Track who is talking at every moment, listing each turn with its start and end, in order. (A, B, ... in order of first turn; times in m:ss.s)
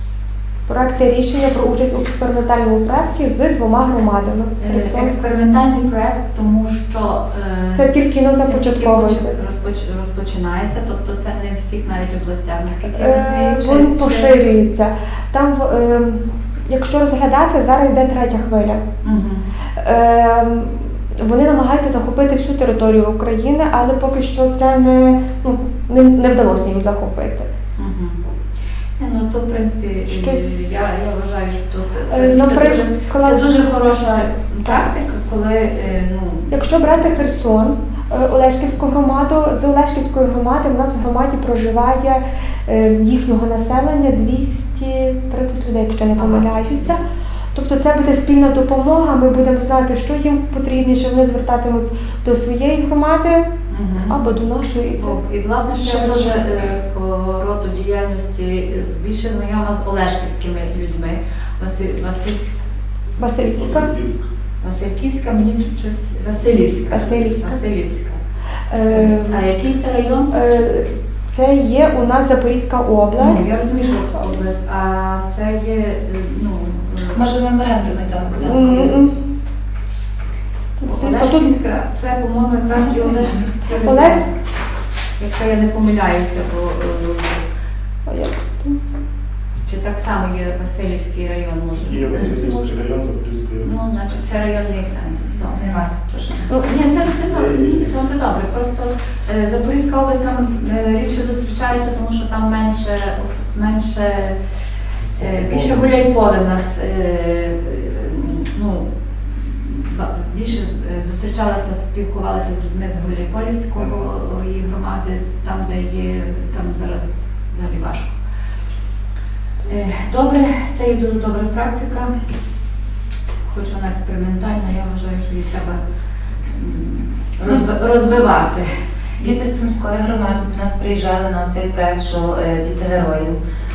0:00.7-0:05.1 A
0:04.6-0:14.4 B
0:07.7-0:09.4 A
0:12.9-0:18.8 A
0:19.0-0:19.4 B
0:19.8-0:27.5 A
0:27.8-0:28.2 B
0:29.0-0:36.6 B
0:30.1-0:30.5 A
0:32.1-0:33.7 A
0:36.5-0:47.0 A
0:46.2-0:47.1 B
0:47.5-0:53.5 A
0:53.7-0:54.2 B
0:54.1-0:55.2 A
0:55.0-1:02.6 B
0:55.8-0:56.4 A
1:03.2-1:03.9 A
1:03.5-1:04.2 C
1:04.6-1:08.2 B
1:06.9-1:07.6 A
1:08.7-1:09.4 A
1:08.9-1:10.3 B
1:10.3-1:13.4 A
1:13.2-1:17.2 B
1:17.1-1:19.1 D
1:18.4-1:19.1 A
1:20.8-1:21.6 A
1:20.8-1:24.3 B
1:22.7-1:23.5 D
1:23.8-1:24.3 A
1:25.2-1:27.4 B
1:28.1-1:28.8 A
1:29.6-1:32.4 B
1:31.8-1:33.9 C
1:32.3-1:32.8 A
1:33.6-1:35.6 B
1:35.3-1:36.8 D
1:36.5-1:36.9 A
1:36.6-1:44.4 B
1:37.1-1:37.9 C
1:45.1-1:45.8 C
1:45.1-1:58.2 B
1:59.6-2:02.1 B
2:03.4-2:05.8 B
2:06.5-2:08.7 B
2:09.2-2:13.4 D